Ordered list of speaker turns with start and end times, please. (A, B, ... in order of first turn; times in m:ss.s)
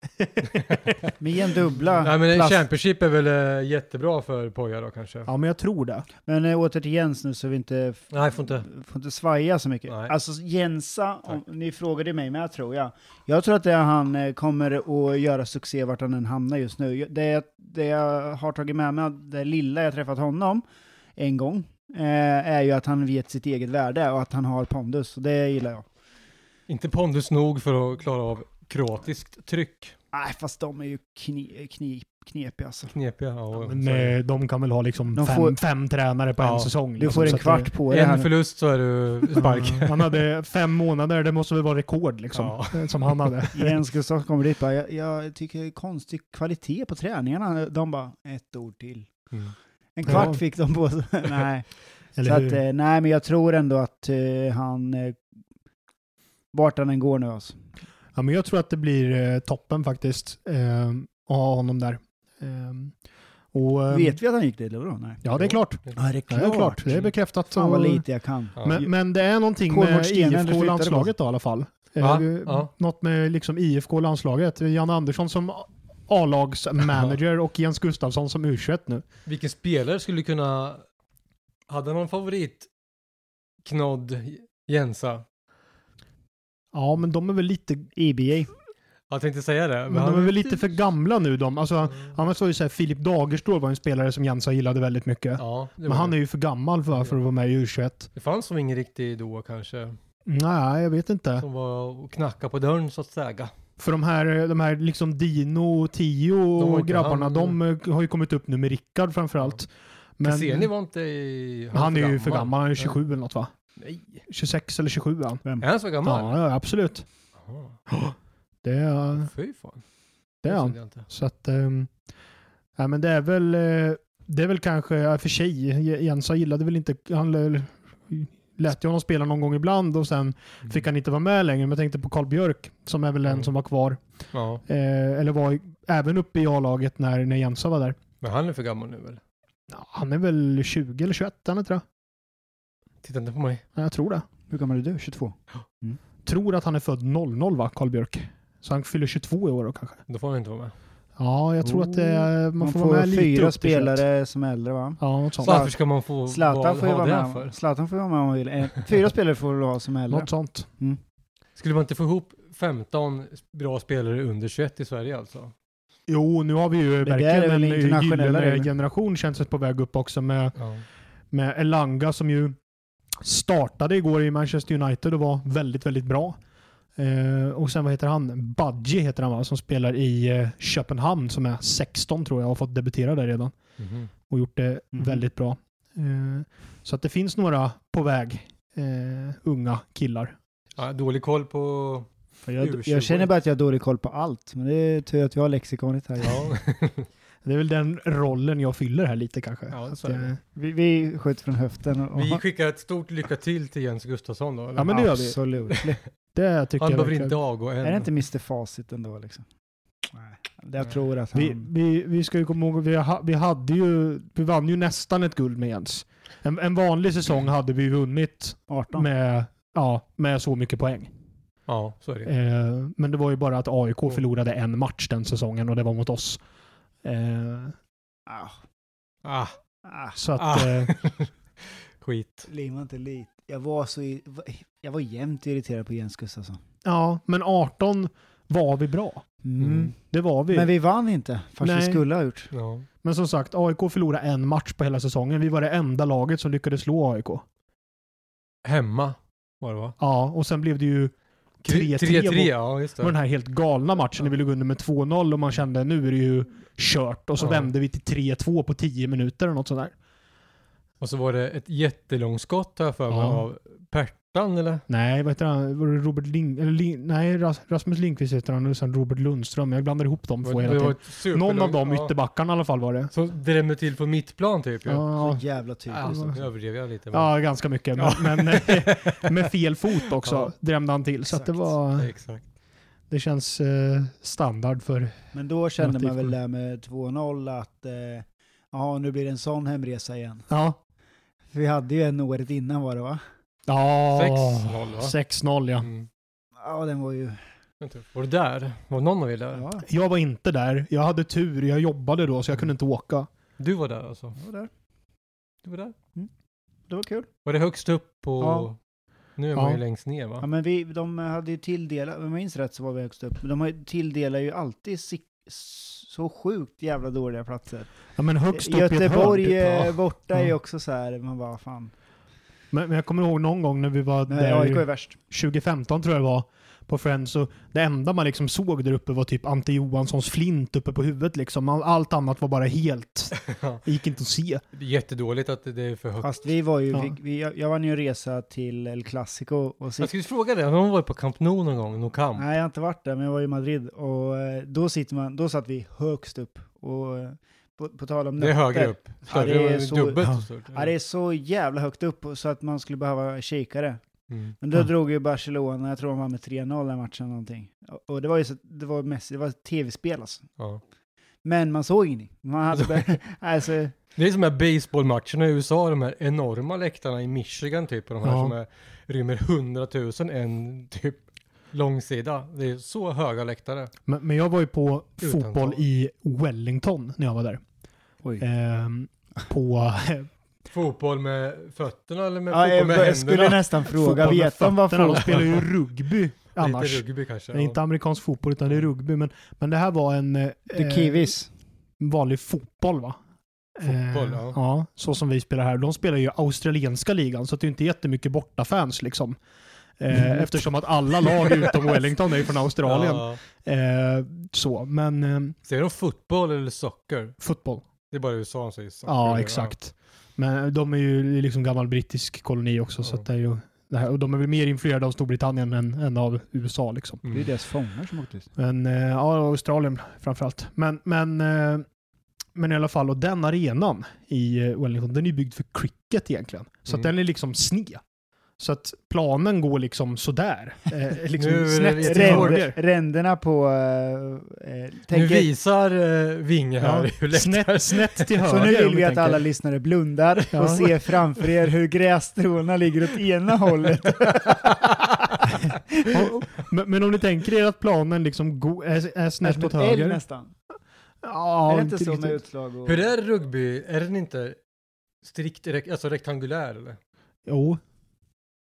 0:00.2-0:00.9 A
0:00.4-0:01.0 B
0:01.2-0:02.6 C
0:02.0-0:05.3 B
0:05.3-0:06.1 A
0:06.3-0:20.6 C
0:08.1-0:08.6 B
0:09.9-0:10.1 B
0:21.2-0:25.9 C
0:26.7-0:29.9 B
0:30.1-0:32.9 C
0:32.9-0:34.1 B
0:33.6-0:37.7 A
0:35.1-0:35.6 C
0:36.4-0:40.2 B
0:37.0-0:38.3 C
0:39.3-0:43.8 A
0:42.3-0:43.5 B
0:43.5-0:49.3 C
0:49.9-0:55.2 C
0:50.1-0:50.4 A
0:52.2-0:52.6 A
0:56.5-0:57.6 C
0:58.1-1:02.9 A
1:03.5-1:04.2 A
1:03.9-1:05.2 C
1:05.2-1:08.0 A
1:05.3-1:06.0 B
1:05.9-1:07.0 C
1:06.9-1:07.1 B
1:07.5-1:08.9 C
1:08.6-1:19.0 A
1:09.7-1:11.1 C
1:12.0-1:12.7 B
1:19.3-1:20.8 B
1:21.7-1:22.7 B
1:23.6-1:25.2 B
1:26.7-1:27.9 A
1:28.0-1:28.5 C
1:29.1-1:30.8 B
1:29.9-1:38.1 A
1:35.4-1:36.2 B
1:38.2-1:40.0 B
1:40.3-1:41.5 A
1:41.4-1:43.5 B
1:43.8-1:49.7 A
1:46.6-1:47.6 B
1:50.2-1:50.7 A
1:50.2-1:52.9 B
1:51.7-1:53.5 A
1:53.8-1:54.2 B
1:54.3-1:55.4 A
1:55.6-1:56.4 B
1:56.0-1:57.0 A
1:57.4-1:57.8 B
1:58.6-1:59.3 A
1:59.1-1:59.8 B
2:00.4-2:01.9 A
2:00.4-2:01.0 B
2:02.8-2:14.0 A
2:14.3-2:14.6 B
2:14.6-2:18.0 A
2:18.2-2:19.2 B
2:19.7-2:21.8 A
2:23.0-2:23.6 B
2:23.8-2:24.2 A
2:24.5-2:26.0 C
2:26.2-2:30.0 A
2:30.1-2:30.7 B
2:31.2-2:34.0 A
2:31.6-2:35.8 C
2:35.0-2:35.6 A
2:35.4-2:37.5 B
2:36.3-2:41.0 C
2:40.1-2:40.7 A
2:41.6-2:45.5 B
2:46.1-2:50.6 A
2:47.0-2:48.7 C
2:50.6-2:50.8 B
2:51.3-2:52.6 A
2:53.2-2:56.4 A
2:57.0-3:03.6 A
3:03.8-3:04.1 B
3:04.3-3:10.4 A
3:04.9-3:05.2 C
3:10.8-3:12.1 B
3:12.5-3:16.5 C
3:12.6-3:13.3 B
3:16.2-3:17.1 B
3:17.4-3:20.4 A
3:19.7-3:20.3 B
3:20.6-3:22.4 C
3:22.1-3:25.0 B
3:24.8-3:25.4 A
3:24.9-3:26.0 C
3:26.4-3:27.4 A
3:26.8-3:28.1 B
3:27.8-3:29.4 C
3:30.1-3:31.7 C
3:31.3-3:41.1 A
3:38.7-3:39.1 C
3:41.7-3:42.3 B
3:42.3-3:46.4 A
3:47.0-3:47.8 A
3:48.3-3:48.6 C
3:49.2-3:49.6 B
3:49.8-3:50.2 C
3:50.2-3:50.9 A
3:50.4-3:52.5 B
3:52.5-3:56.6 C
3:56.8-3:59.2 A
3:59.4-3:59.9 C
3:59.6-3:59.9 B
4:00.0-4:00.7 A
4:00.5-4:02.5 C
4:01.6-4:02.0 A
4:02.5-4:02.9 B
4:03.0-4:07.4 A
4:08.6-4:10.0 B
4:10.0-4:19.9 A
4:11.6-4:13.1 B
4:17.4-4:17.7 B
4:21.0-4:24.8 B
4:23.1-4:23.4 A
4:24.9-4:33.1 A
4:30.4-4:32.1 B
4:33.1-4:35.2 B
4:34.9-4:35.4 A
4:35.2-4:36.4 C
4:35.9-4:37.4 B
4:36.0-4:36.4 A
4:37.1-4:42.1 A
4:38.0-4:39.4 B
4:40.2-4:40.5 B
4:41.3-4:41.7 C
4:41.9-4:42.4 B
4:43.1-4:45.2 A
4:45.3-4:50.5 C
4:45.8-4:46.3 A
4:50.5-4:50.8 A
4:51.5-4:53.2 C
4:53.7-4:55.9 A
4:54.1-4:55.1 B
4:55.8-4:56.1 B
4:56.6-4:57.4 C
4:57.8-4:59.6 B
4:59.5-4:59.9 C
4:59.8-5:03.3 A
5:03.6-5:04.4 B
5:04.4-5:04.7 C
5:05.6-5:05.9 B
5:06.9-5:07.3 C
5:07.4-5:08.8 B
5:08.4-5:08.7 C
5:09.4-5:10.4 B
5:09.5-5:09.8 A
5:10.4-5:17.9 C
5:18.2-5:20.5 A
5:18.5-5:21.9 C
5:22.7-5:34.6 A
5:24.3-5:25.2 C
5:33.4-5:33.8 B
5:34.7-5:36.4 B
5:36.2-5:40.1 C
5:40.0-5:42.5 B
5:42.4-5:54.0 C
5:48.4-5:50.9 B
5:54.3-5:54.6 B
5:54.6-6:00.5 C
6:01.4-6:03.9 C
6:02.7-6:03.2 B
6:04.1-6:13.9 B
6:08.2-6:08.6 A
6:14.1-6:17.6 A
6:15.2-6:15.8 B
6:18.4-6:20.3 A
6:20.7-6:23.8 B
6:22.5-6:25.6 C
6:24.0-6:31.3 A
6:26.6-6:27.8 B
6:30.7-6:31.5 C
6:32.0-6:33.2 A
6:33.8-6:39.4 A
6:33.8-6:34.6 B
6:40.0-6:45.6 A
6:42.8-6:43.4 B
6:45.6-6:47.4 B
6:47.4-6:47.8 A
6:48.1-6:49.8 B
6:49.1-6:57.2 A
6:57.3-6:58.5 C
6:58.6-7:01.8 A
7:02.6-7:08.0 A
7:08.6-7:12.8 A
7:11.4-7:12.6 B
7:12.0-7:15.5 C
7:15.1-7:18.4 B
7:16.8-7:19.4 A
7:18.5-7:24.7 C
7:20.5-7:20.9 A
7:25.5-7:26.1 C
7:26.1-7:30.2 A
7:29.4-7:30.5 C
7:31.2-7:32.4 A
7:31.7-7:33.1 C
7:32.8-7:34.6 B
7:35.2-7:37.0 B
7:37.5-7:37.8 A